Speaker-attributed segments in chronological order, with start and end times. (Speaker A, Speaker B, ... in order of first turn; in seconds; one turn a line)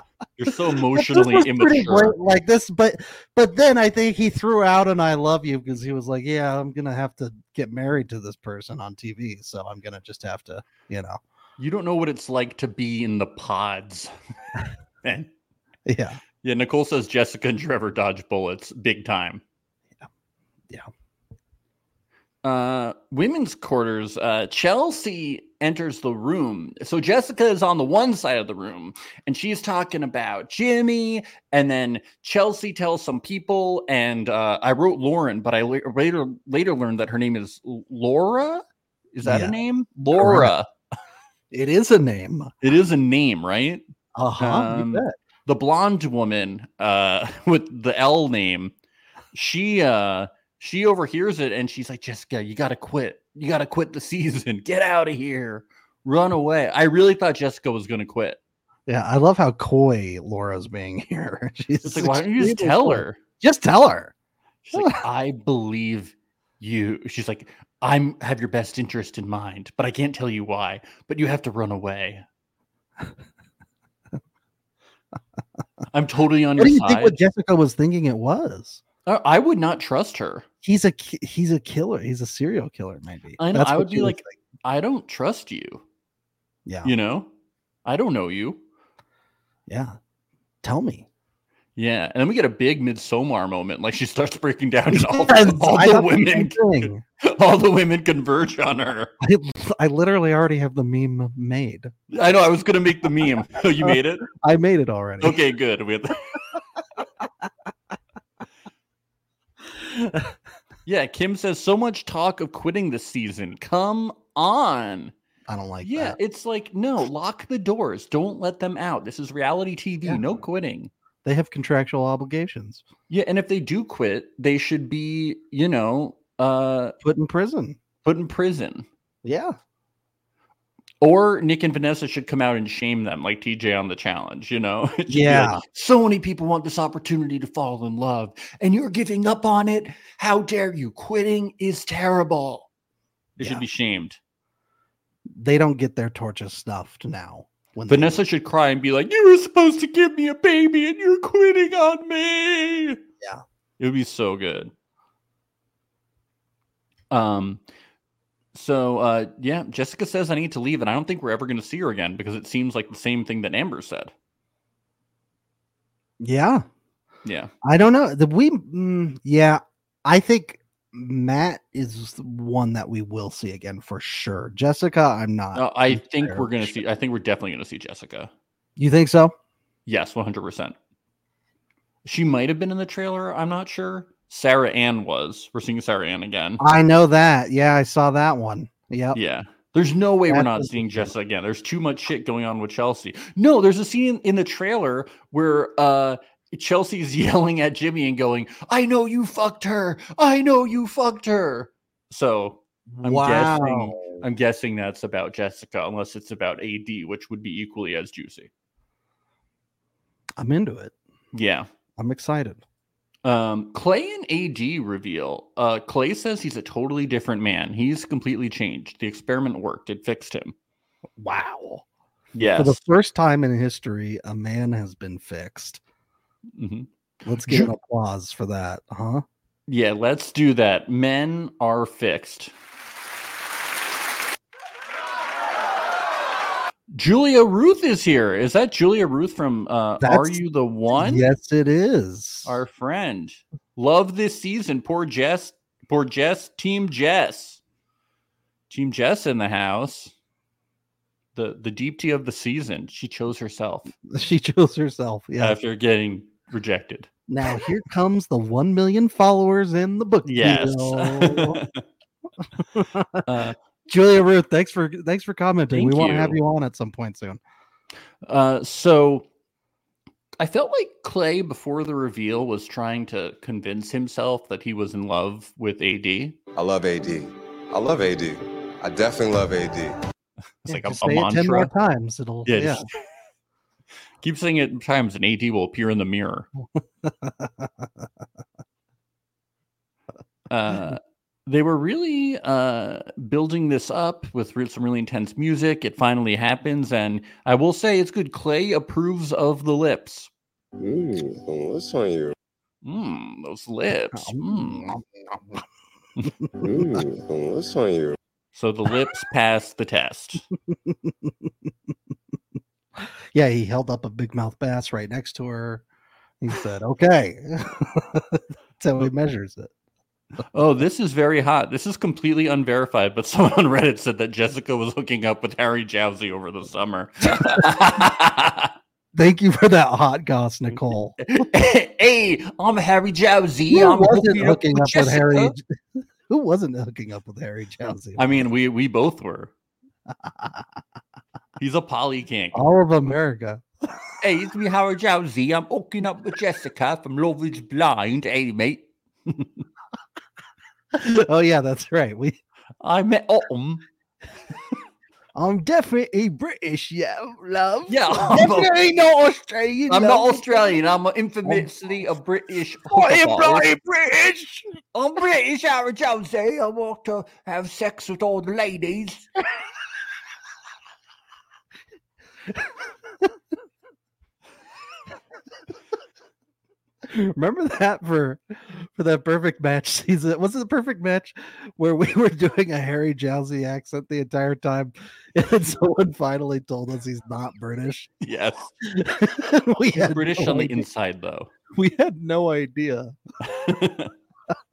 Speaker A: 0.4-2.1
Speaker B: 0.9-11.2
Speaker A: 11.6-14.1
Speaker A: 15.0-15.3
Speaker B: 15.8-16.2
Speaker A: 16.4-19.4
Speaker A: 22.4-40.7
Speaker B: 39.2-39.5
Speaker B: 40.1-40.5
Speaker B: 41.5-42.5
Speaker A: 42.6-43.8
Speaker B: 44.1-45.1
Speaker A: 44.4-48.7
Speaker A: 49.3-58.4
Speaker B: 58.9-64.1
Speaker A: 61.8-63.2
Speaker A: 64.6-72.2
Speaker B: 64.7-65.0
Speaker A: 75.9-77.2
Speaker B: 76.6-78.8
Speaker A: 79.0-80.4
Speaker B: 80.6-84.3
Speaker A: 83.4-85.8
Speaker B: 86.7-86.9
Speaker A: 86.8-87.3
Speaker A: 87.8-88.6
Speaker B: 89.7-90.0
Speaker B: 90.6-91.1
Speaker A: 91.8-99.1
Speaker B: 94.9-97.0
Speaker B: 99.2-101.9
Speaker A: 102.1-104.3
Speaker B: 103.8-105.4
Speaker A: 105.2-106.4
Speaker A: 110.8-115.1
Speaker B: 115.5-116.2
Speaker A: 115.8-120.9
Speaker B: 121.2-122.8
Speaker A: 123.1-126.9
Speaker B: 127.0-127.8
Speaker A: 128.0-128.8
Speaker B: 129.2-129.6
Speaker A: 131.0-142.7
Speaker B: 135.1-135.6
Speaker A: 143.4-144.2
Speaker B: 143.4-143.6
Speaker B: 145.3-148.2
Speaker A: 147.9-153.0
Speaker A: 153.8-154.7
Speaker A: 157.1-157.6
Speaker A: 158.5-164.1
Speaker B: 166.2-166.6
Speaker A: 167.2-167.5
Speaker B: 167.6-176.8
Speaker A: 175.5-178.3
Speaker B: 178.8-179.3
Speaker A: 179.8-180.8
Speaker A: 182.0-186.6
Speaker B: 186.6-189.2
Speaker A: 189.1-208.5
Speaker B: 190.3-191.1
Speaker B: 202.9-204.2
Speaker B: 210.4-210.9
Speaker A: 211.3-211.7
Speaker B: 212.0-212.6
Speaker A: 213.2-220.5
Speaker B: 221.2-221.8
Speaker A: 222.3-222.8
Speaker B: 222.6-225.8
Speaker A: 226.6-226.9
Speaker B: 227.2-229.2
Speaker A: 227.4-227.7
Speaker A: 229.7-232.5
Speaker A: 236.9-241.3
Speaker B: 240.0-240.4
Speaker B: 240.9-242.6
Speaker A: 242.4-247.6
Speaker A: 248.7-250.1
Speaker A: 251.3-253.9
Speaker B: 254.1-255.6
Speaker A: 255.4-257.1
Speaker B: 257.3-261.6
Speaker A: 260.2-261.8
Speaker B: 262.7-263.3
Speaker A: 263.2-263.6
Speaker B: 263.9-267.4
Speaker A: 265.7-266.4
Speaker A: 268.2-269.2
Speaker A: 270.4-276.4
Speaker C: 276.6-279.9
Speaker A: 280.6-281.7
Speaker B: 280.7-282.8
Speaker A: 282.4-282.8
Speaker A: 284.2-286.5
Speaker B: 287.0-287.9
Speaker A: 290.5-300.3
Speaker C: 300.8-302.3
Speaker A: 302.8-304.9
Speaker B: 304.1-305.6
Speaker C: 306.6-308.1
Speaker B: 306.7-307.0
Speaker A: 308.5-310.4
Speaker B: 310.7-311.5
Speaker B: 313.0-315.8
Speaker B: 316.4-319.7
Speaker A: 320.5-328.7
Speaker B: 327.4-327.6
Speaker B: 329.1-331.2
Speaker A: 331.2-335.5
Speaker B: 333.7-335.7
Speaker B: 336.3-338.3
Speaker A: 338.2-339.5
Speaker B: 340.2-340.6
Speaker A: 341.6-342.6
Speaker B: 342.5-343.6
Speaker A: 344.2-349.6
Speaker B: 350.9-352.4
Speaker A: 352.8-353.8
Speaker B: 355.3-360.7
Speaker A: 357.9-358.7
Speaker A: 359.9-363.7
Speaker B: 362.9-364.7
Speaker A: 364.9-369.3
Speaker B: 377.0-388.1
Speaker A: 388.2-388.7
Speaker B: 388.9-390.8
Speaker A: 389.9-391.5
Speaker B: 391.7-393.1
Speaker A: 393.4-394.1